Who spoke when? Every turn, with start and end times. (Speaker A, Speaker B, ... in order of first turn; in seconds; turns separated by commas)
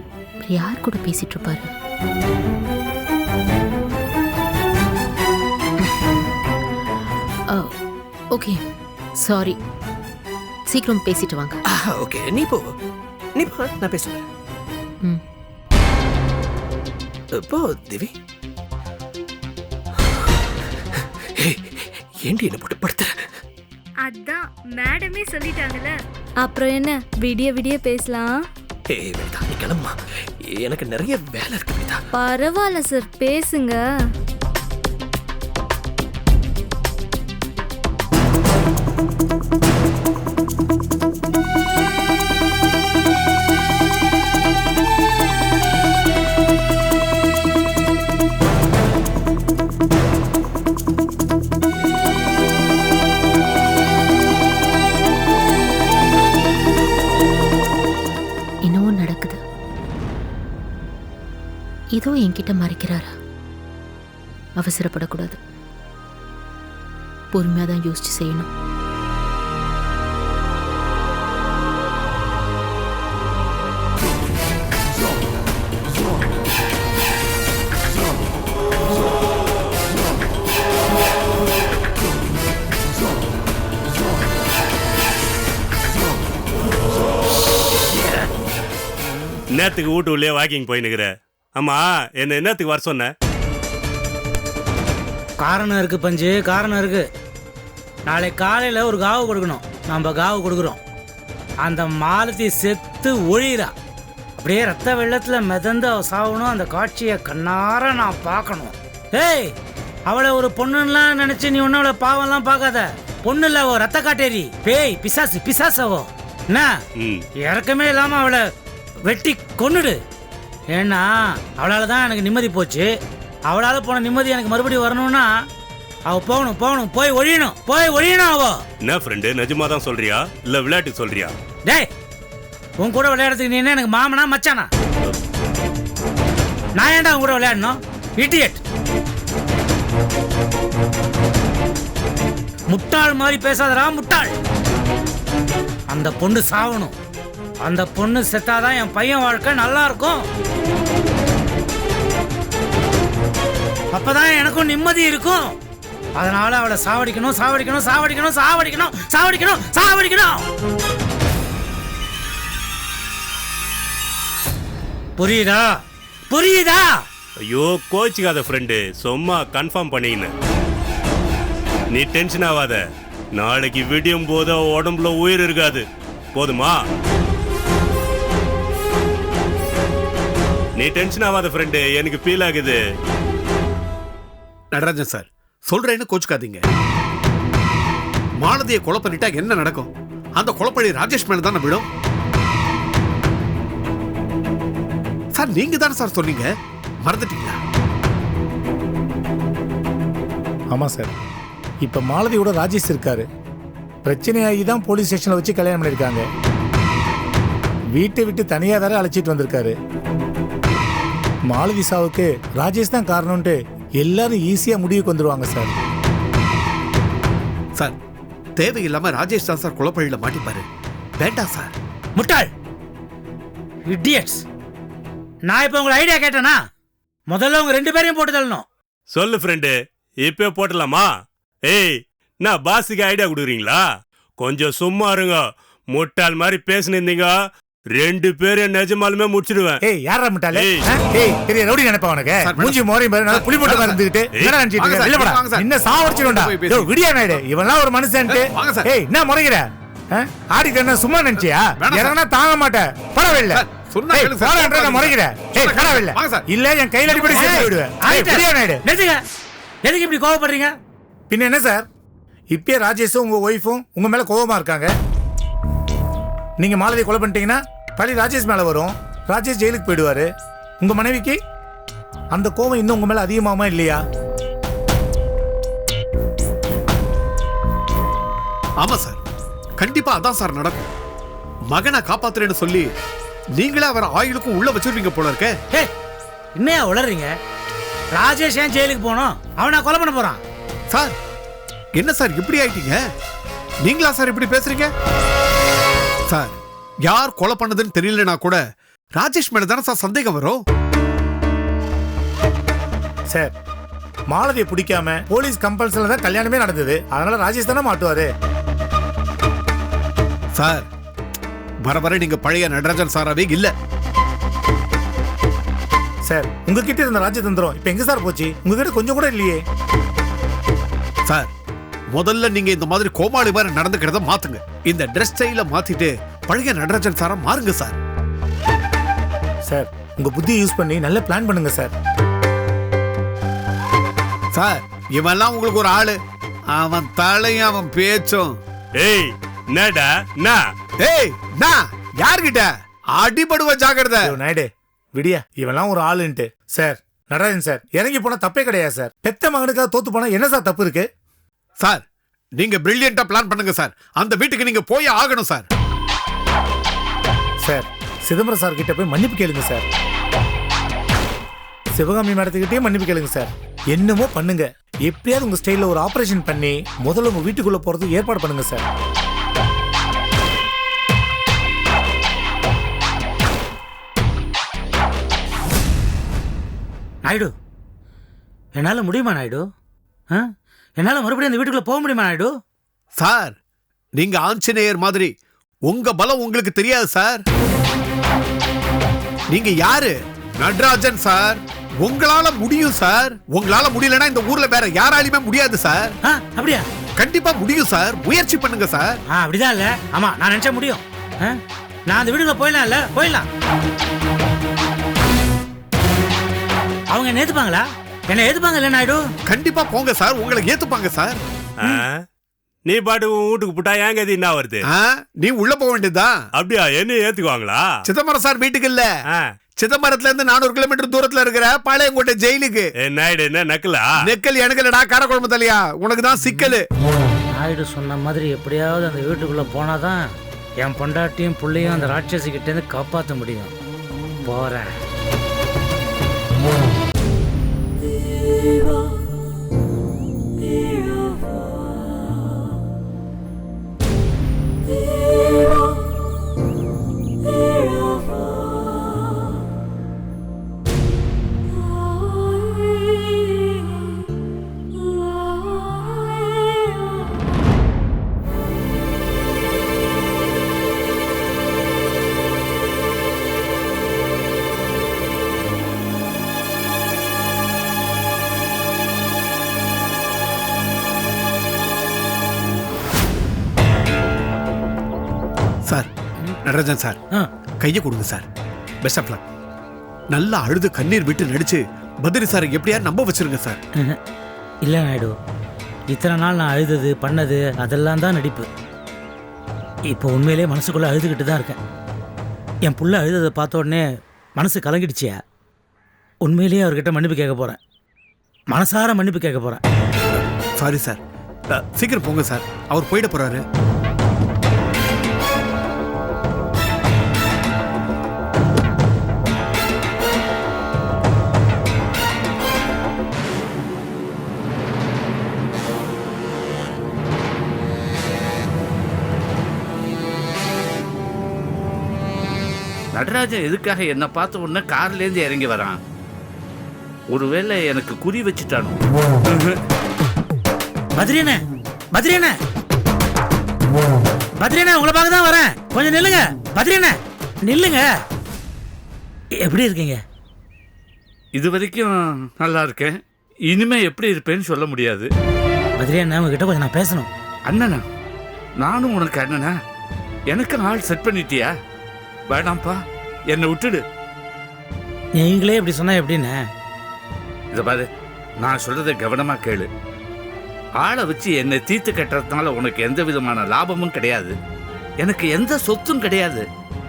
Speaker A: 0.4-1.7, Speaker A: 8.3-8.6, Speaker A: 9.2-9.6, Speaker A: 10.7-11.6, Speaker B: 11.7-12.7, Speaker B: 13.3-14.2, Speaker B: 17.3-18.1, Speaker B: 20.9-23.3, Speaker C: 24.1-25.9, Speaker C: 26.4-28.3, Speaker B: 28.9-32.0, Speaker C: 32.2-33.8, Speaker A: 58.6-59.4, Speaker A: 62.0-63.1, Speaker A: 64.6-65.4, Speaker A: 67.3-68.5, Speaker D: 89.5-93.1, Speaker E: 95.4-97.1, Speaker E: 98.1-100.8, Speaker E: 101.6-103.7, Speaker E: 104.4-109.5, Speaker E: 110.1-116.7, Speaker D: 117.0-117.2, Speaker E: 117.4-118.4, Speaker E: 119.0-120.0, Speaker E: 120.7-122.9, Speaker E: 123.5-125.3, Speaker E: 126.1-128.6, Speaker D: 128.8-131.3, Speaker E: 132.8-134.7, Speaker E: 136.8-138.6, Speaker E: 142.7-144.3, Speaker E: 145.9-146.9, Speaker E: 147.6-150.2, Speaker E: 153.9-155.6, Speaker E: 156.2-160.4, Speaker E: 165.2-165.7, Speaker E: 166.3-167.0, Speaker D: 167.4-170.3, Speaker D: 171.9-172.8, Speaker D: 173.3-176.8, Speaker D: 180.8-182.8, Speaker F: 184.7-186.6, Speaker F: 188.4-191.8, Speaker F: 195.3-196.5, Speaker F: 197.1-197.6, Speaker G: 200.7-201.1, Speaker G: 201.8-203.2, Speaker G: 204.0-206.2, Speaker G: 208.0-209.7, Speaker G: 211.5-215.7, Speaker F: 218.6-220.7, Speaker F: 221.2-221.7, Speaker E: 222.2-222.5, Speaker E: 223.8-224.4, Speaker E: 225.4-226.6, Speaker E: 227.3-228.6, Speaker D: 229.1-229.7, Speaker D: 230.2-231.1, Speaker D: 231.7-233.8, Speaker D: 234.4-237.3, Speaker D: 237.9-239.8, Speaker G: 239.8-258.8, Speaker D: 240.5-240.9, Speaker F: 242.4-244.0, Speaker F: 244.6-246.9, Speaker F: 248.3-248.9, Speaker F: 251.8-252.2, Speaker F: 253.5-256.5, Speaker F: 257.1-257.6, Speaker E: 257.2-259.2, Speaker E: 259.8-260.7, Speaker G: 261.3-261.9, Speaker G: 262.5-264.9, Speaker G: 266.6-270.3, Speaker G: 270.8-271.4, Speaker G: 272.3-274.0, Speaker F: 278.8-279.2, Speaker F: 279.8-280.9, Speaker F: 281.7-282.9, Speaker F: 283.6-285.5, Speaker E: 286.6-287.3, Speaker E: 288.1-290.4, Speaker F: 290.9-291.1, Speaker F: 291.9-293.0, Speaker F: 293.9-294.9, Speaker F: 296.3-298.6, Speaker F: 299.2-300.6, Speaker G: 304.3-308.3, Speaker F: 310.5-310.9, Speaker F: 311.9-313.7, Speaker G: 316.2-319.6, Speaker F: 322.1-328.0, Speaker G: 329.7-331.9, Speaker F: 334.5-336.2, Speaker F: 336.7-338.6, Speaker D: 339.0-340.6, Speaker F: 341.0-344.4, Speaker G: 344.2-351.1, Speaker F: 351.8-352.0, Speaker F: 352.6-355.7, Speaker G: 357.6-359.8, Speaker G: 362.0-368.8, Speaker E: 377.2-377.5, Speaker E: 378.7-379.6, Speaker E: 381.0-382.5, Speaker F: 383.2-383.6, Speaker F: 384.1-385.3, Speaker F: 385.9-387.4, Speaker F: 389.5-396.2, Speaker E: 396.2-396.9, Speaker F: 397.2-399.2, Speaker E: 399.3-403.4, Speaker E: 407.1-409.2, Speaker F: 409.4-411.4, Speaker D: 411.8-412.2, Speaker D: 412.9-414.8, Speaker F: 414.8-416.4, Speaker D: 416.6-417.9, Speaker F: 418.0-419.1, Speaker F: 419.8-422.9, Speaker D: 423.0-424.1, Speaker F: 424.2-426.9, Speaker E: 427.5-430.2, Speaker E: 430.8-433.7, Speaker E: 434.4-434.9, Speaker F: 476.6-477.2, Speaker F: 477.8-478.4, Speaker F: 479.0-479.4, Speaker F: 480.3-483.8, Speaker E: 484.8-485.3, Speaker E: 486.1-488.7, Speaker E: 490.1-491.8, Speaker E: 492.9-494.0, Speaker E: 494.6-495.4, Speaker E: 496.4-497.8, Speaker E: 498.7-499.8, Speaker F: 500.8-503.6, Speaker H: 523.1-526.0, Speaker H: 527.3-529.8, Speaker E: 531.1-531.6, Speaker E: 532.1-532.5, Speaker E: 534.6-538.1, Speaker E: 539.6-540.2, Speaker H: 541.5-545.3, Speaker E: 546.0-547.3, Speaker H: 547.7-548.0, Speaker H: 548.8-549.7, Speaker H: 550.5-551.7, Speaker H: 552.5-553.0, Speaker H: 553.5-554.0, Speaker E: 555.4-556.6, Speaker H: 557.7-558.1, Speaker H: 558.6-559.9, Speaker H: 561.0-564.5, Speaker H: 565.2-566.6